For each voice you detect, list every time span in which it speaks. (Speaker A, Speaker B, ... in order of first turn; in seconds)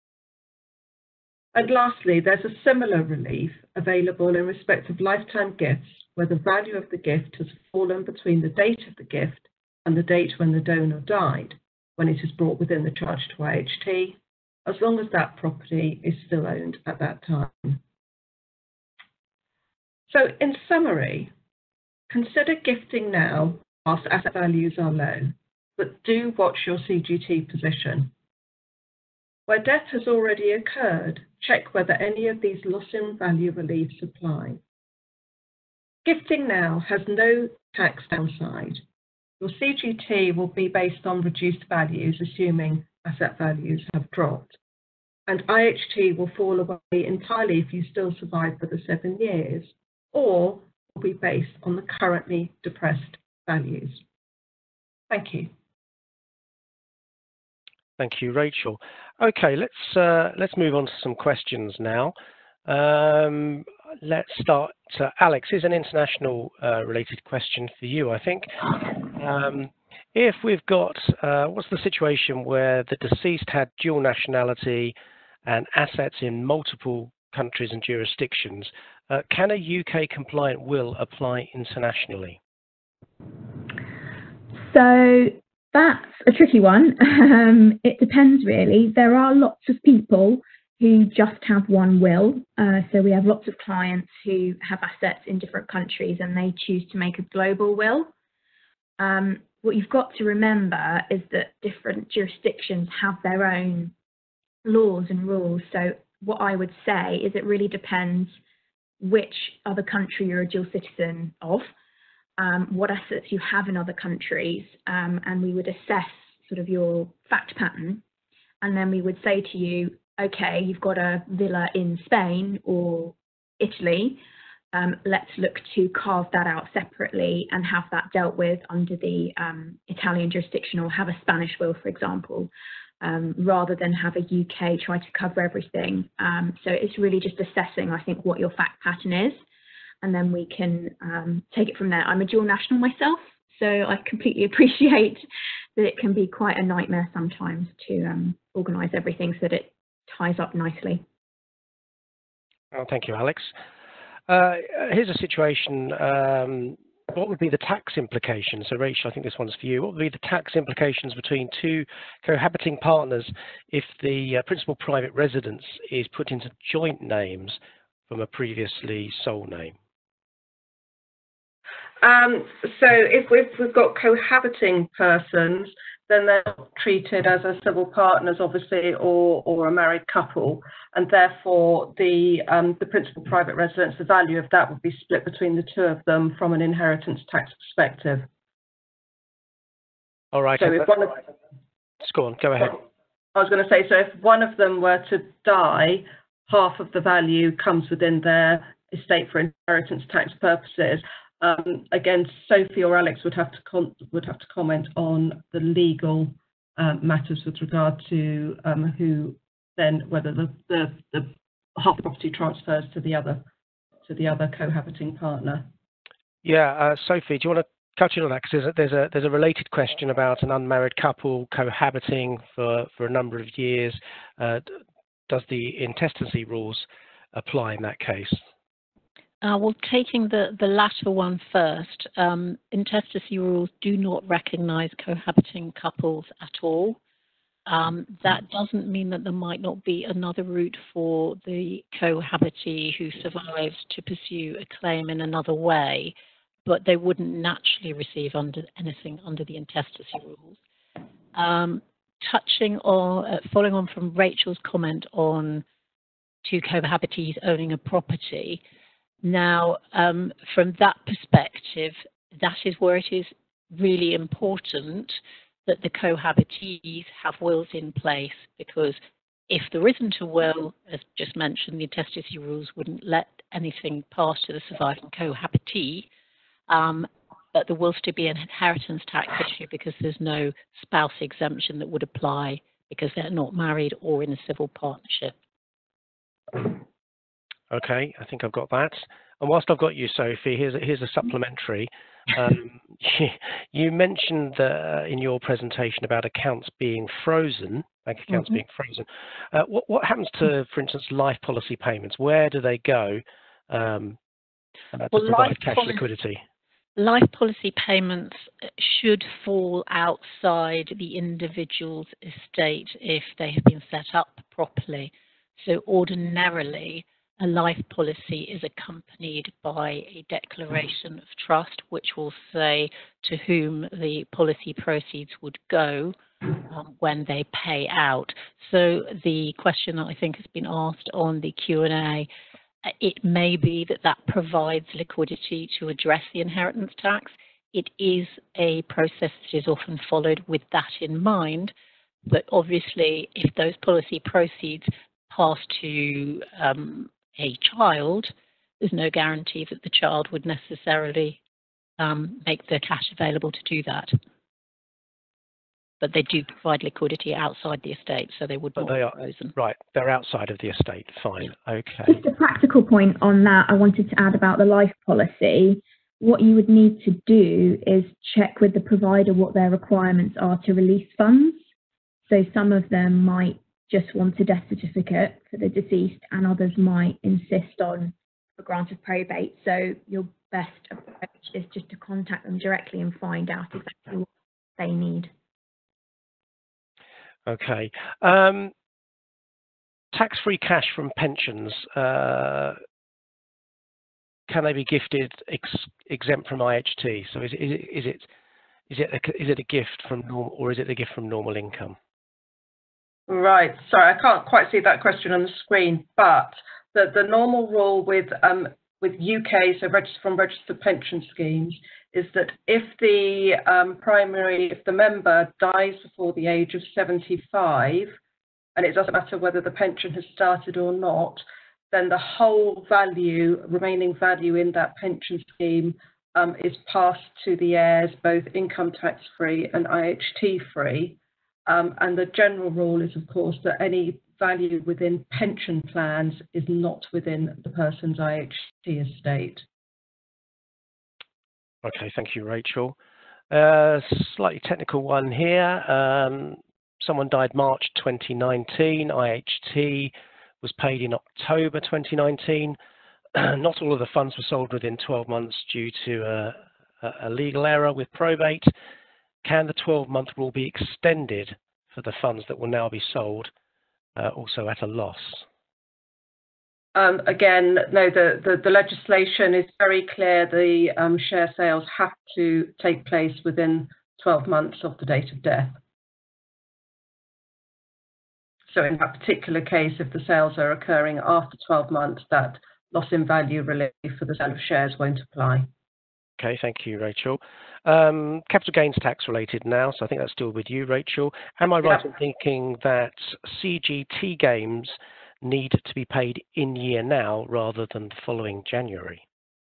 Speaker A: 1.5-17.8, 20.1-21.3, 22.1-28.1, 29.5-34.6, 36.0-38.8, 39.4-44.6, 45.3-54.0, 55.1-55.5, 172.0-188.3, 190.6-191.2, 193.3-213.4, 214.1-215.7, 403.3-418.2, 418.8-439.7, 466.9-475.8, 478.7-485.7
Speaker B: 58.0-62.1, 62.7-82.4, 152.7-153.6, 154.3-169.8, 190.3-190.9, 192.0-192.8, 216.4-228.4, 287.7-304.2, 304.9-306.4, 358.8-362.2, 387.5-388.7, 390.1-392.8, 394.5-398.3, 398.9-402.0, 441.8-443.0, 443.5-452.8, 453.4-458.7, 459.4-463.5, 464.2-465.4, 486.4-499.2
Speaker C: 84.6-98.1, 99.0-103.9, 104.6-108.4, 109.0-111.7, 112.4-118.0, 118.6-124.2, 124.7-132.5, 133.0-139.4, 140.0-145.2, 145.8-151.1, 362.1-371.6, 372.2-385.3
Speaker D: 229.4-237.0, 237.7-246.1, 246.7-250.6, 251.3-255.7, 256.4-258.6, 259.2-276.1, 276.7-285.4, 298.3-298.6, 305.1-306.1, 307.0-332.3, 332.9-341.7, 342.3-351.4, 352.0-354.1, 356.0-359.6